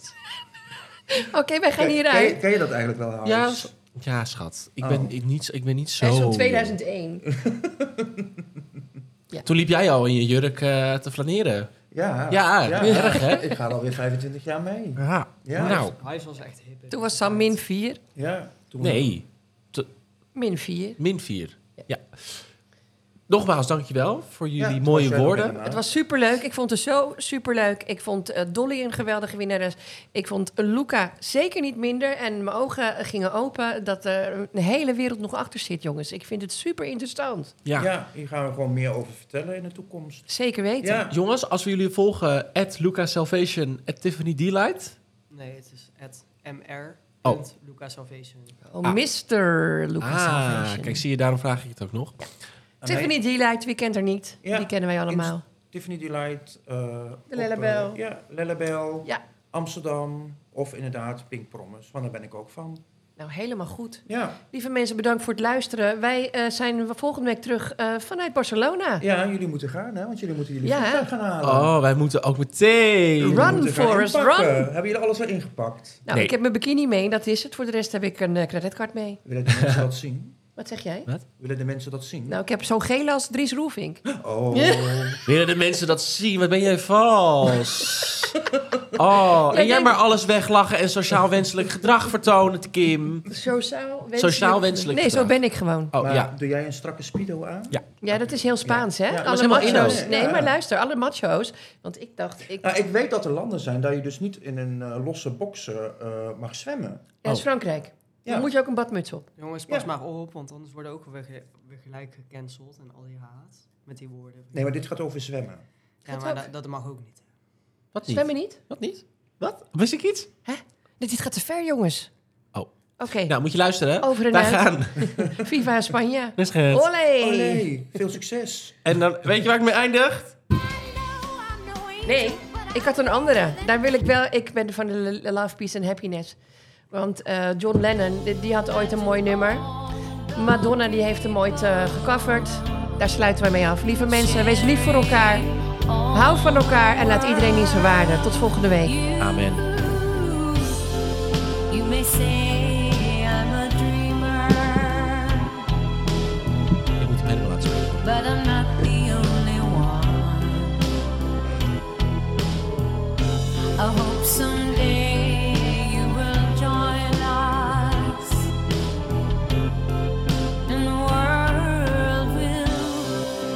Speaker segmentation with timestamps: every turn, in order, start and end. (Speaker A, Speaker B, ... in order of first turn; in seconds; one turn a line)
Speaker A: 1.1-2.4
Speaker B: 1.8-3.7
Speaker C: 3.2-6.8
Speaker B: 4.8-5.1
Speaker A: 6.0-7.3
Speaker B: 7.2-8.8
Speaker C: 9.4-11.7
Speaker B: 11.9-15.9
Speaker C: 12.3-13.5
Speaker C: 15.0-16.0
Speaker D: 15.6-17.6
Speaker A: 16.9-18.0
Speaker B: 18.1-19.2
Speaker C: 18.8-19.9
Speaker A: 20.4-21.0
Speaker C: 21.0-22.5
Speaker C: 23.3-25.5
Speaker B: 24.6-25.9
Speaker A: 25.4-37.5
Speaker C: 37.6-37.9
Speaker B: 37.8-40.3
Speaker A: 40.3-41.1
Speaker B: 40.8-41.1
Speaker C: 41.1-45.0
Speaker D: 45.3-48.6
Speaker A: 48.7-51.0
Speaker C: 50.0-52.3
Speaker B: 52.8-53.2
Speaker A: 52.9-55.4
Speaker B: 54.4-62.8
Speaker A: 57.3-58.0
Speaker A: 63.2-69.0
Speaker B: 64.1-64.4
Speaker B: 69.0-71.7
Speaker A: 70.6-71.1
Speaker C: 71.4-73.6
Speaker A: 73.2-74.7
Speaker B: 73.3-76.1
Speaker A: 76.1-79.2
Speaker C: 76.1-76.3
Speaker B: 79.2-80.4
Speaker C: 79.5-79.8
Speaker A: 80.6-81.1
Speaker B: 81.4-82.4
Speaker A: 82.3-85.2
Speaker B: 84.1-85.2
Speaker C: 85.2-88.4
Speaker B: 88.6-88.8
Speaker C: 88.9-93.3
Speaker A: 89.5-90.0
Speaker A: 93.3-95.9
Speaker C: 94.2-95.4
Speaker C: 95.9-96.3
Speaker B: 96.0-100.6
Speaker A: 98.0-102.6
Speaker C: 99.2-100.1
Speaker B: 102.6-107.1
Speaker A: 107.2-109.3
Speaker B: 108.2-108.5
Speaker D: 109.4-114.7
Speaker B: 114.5-115.6
Speaker D: 116.1-117.3
Speaker A: 116.1-116.4
Speaker C: 117.9-120.3
Speaker A: 118.0-118.6
Speaker A: 120.5-122.1
Speaker C: 122.5-125.1
Speaker A: 123.0-123.3
Speaker A: 124.0-127.7
Speaker B: 125.0-125.4
Speaker C: 126.4-126.9
Speaker B: 127.2-128.8
Speaker C: 128.8-130.4
Speaker E: 130.5-133.7
Speaker A: 132.1-136.4
Speaker A: 136.9-139.7
Speaker E: 138.8-143.0
Speaker A: 140.3-145.5
Speaker E: 144.1-148.2
Speaker A: 146.1-148.9
Speaker E: 148.8-150.8
Speaker C: 149.2-149.7
Speaker E: 151.7-155.6
Speaker C: 157.0-158.1
Speaker E: 158.0-160.9
Speaker E: 163.8-168.5
Speaker E: 170.7-173.3